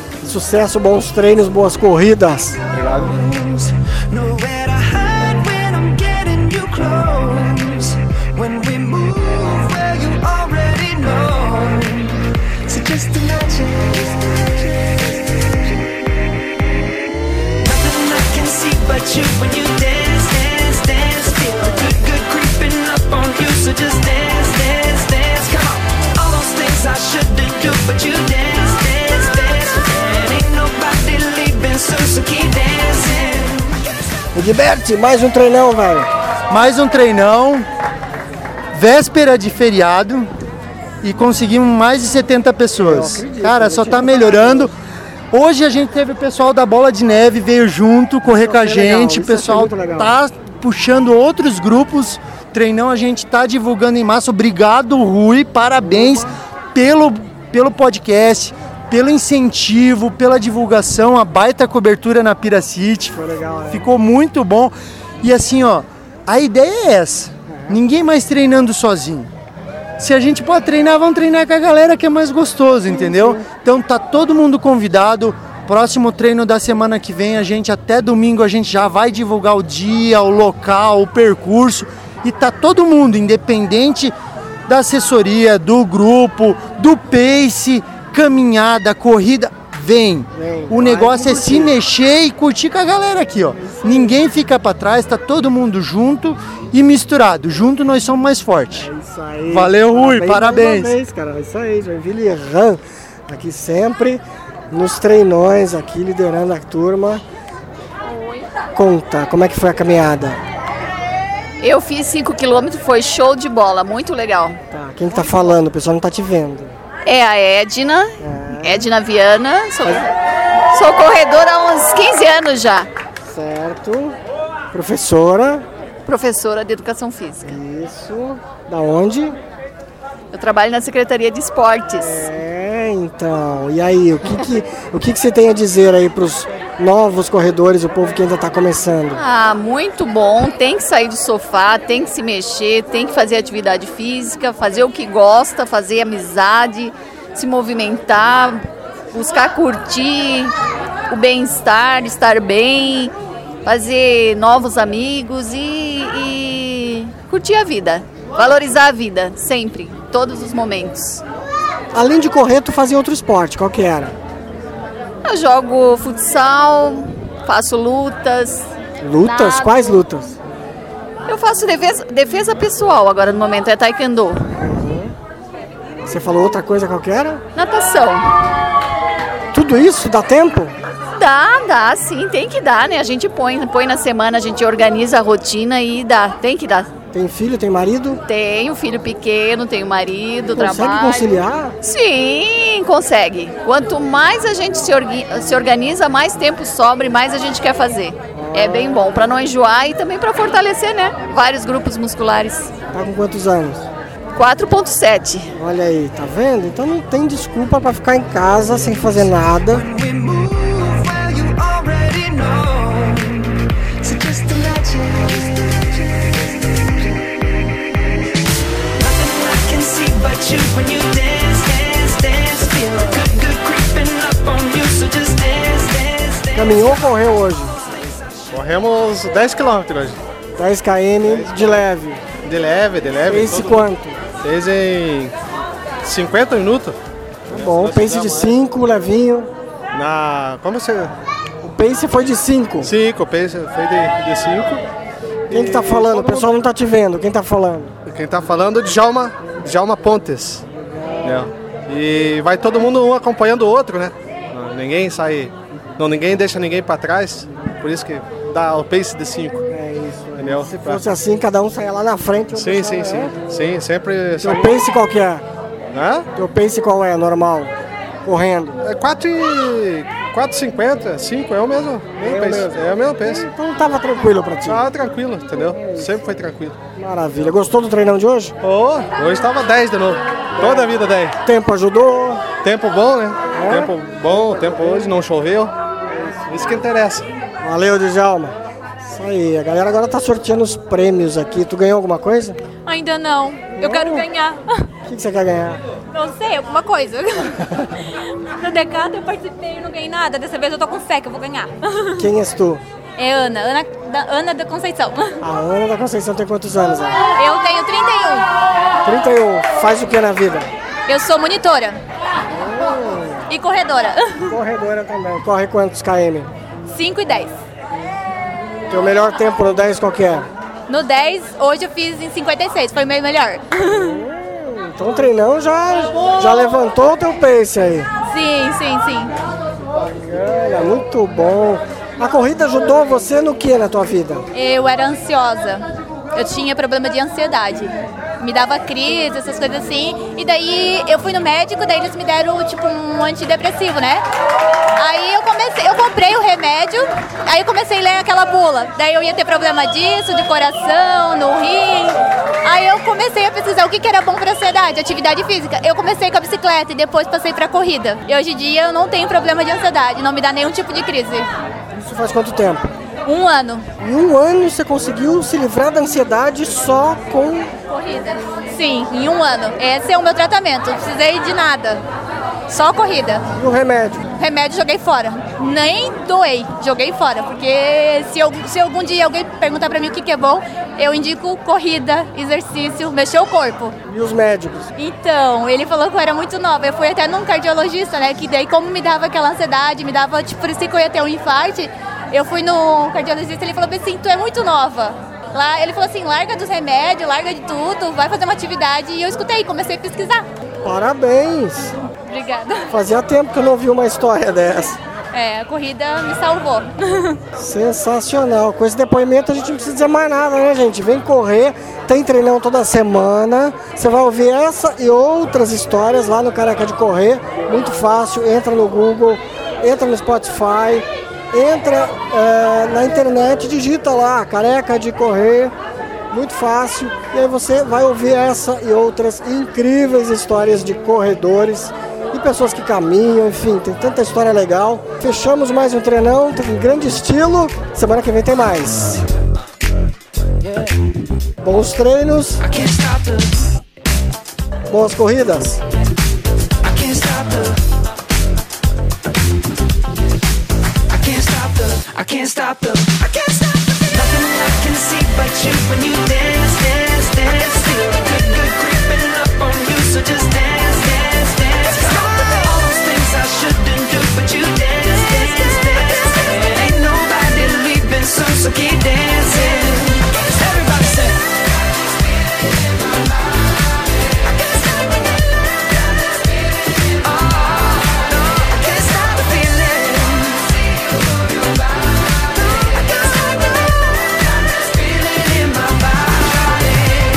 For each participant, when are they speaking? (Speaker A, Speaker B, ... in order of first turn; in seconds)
Speaker A: 0.2-2.6, 34.3-36.1, 42.8-44.7, 48.2-50.1, 55.8-56.3, 63.1-63.9, 67.5-67.8, 72.9-73.4, 90.3-91.7, 93.5-94.2, 98.7-107.2, 108.7-110.4, 114.7-116.8, 118.2-118.9, 123.2-124.2, 124.7-125.7, 127.4-129.4, 132.0-139.2, 161.9-164.1, 169.0-170.4, 174.6-175.1, 176.1-177.4, 179.5-180.8, 187.1-188.2, 190.5-191.8, 198.3-199.1, 202.9-203.9, 205.6-209.9, 226.5-227.8, 230.6-232.2, 233.2-234.2, 237.5-239.5, 241.6-242.9, 245.5-247.9, 250.7-251.5, 259.7-263.3, 264.4-265.4, 266.4-268.8, 272.2-274.9, 275.8-276.2, 277.0-278.6, 280.6-280.9, 281.4-282.4, 283.5-285.1, 286.1-286.8, 287.6-292.6, 293.8-294.3, 295.1-295.8, 302.2-302.8, 305.4-307.2, 309.0-310.7, 312.5-313.5, 314.4-316.5, 318.9-320.5, 323.9-328.1, 330.0-334.4, 361.9-362.9, 364.0-367.7, 373.6-374.2, 384.1-384.9, 400.8-402.0, 402.9-405.0, 407.5-425.7, 426.3-439.2, 441.6-442.6, 444.9-445.8
Speaker B: 2.8-15.1, 17.6-33.8, 209.7-217.3, 219.0-227.0, 442.6-443.5, 446.8-447.8, 451.1-471.4, 474.5-475.3, 477.0-480.7, 482.7-487.2
Speaker C: 36.5-37.6, 38.7-40.3, 41.0-44.7, 45.3-63.2, 63.7-69.3, 70.0-84.1, 84.7-98.9, 99.5-101.0
Speaker D: 111.6-114.6, 117.1-120.1, 120.7-122.9, 126.1-127.6, 130.3-132.2, 139.2-150.5, 151.1-161.2, 165.2-168.7, 169.3-169.7, 171.3-174.5, 177.6-178.3, 181.2-186.9, 188.3-191.3, 191.8-202.7, 204.3-205.5
Speaker E: 228.5-230.2, 231.2-233.9, 234.4-235.3, 236.0-237.0, 237.5-238.6, 239.9-241.1, 242.8-244.8, 245.5-246.5, 248.1-250.6, 251.2-259.6, 260.4-261.0, 262.5-264.9, 265.9-266.3, 268.8-273.5, 274.6-276.8, 278.6-281.4, 282.6-285.7, 286.5-287.3
Speaker F: 292.9-294.6, 296.1-297.5, 298.6-302.2, 303.2-305.3, 307.4-308.4, 311.1-312.0, 313.5-314.3, 316.9-317.5, 320.9-324.0, 328.3-329.3, 334.5-335.8, 336.4-337.9, 338.4-344.2, 345.0-361.5, 363.3-363.8, 367.9-372.0, 372.7-373.4, 374.4-383.9, 385.0-400.4, 402.3-402.9, 405.3-406.9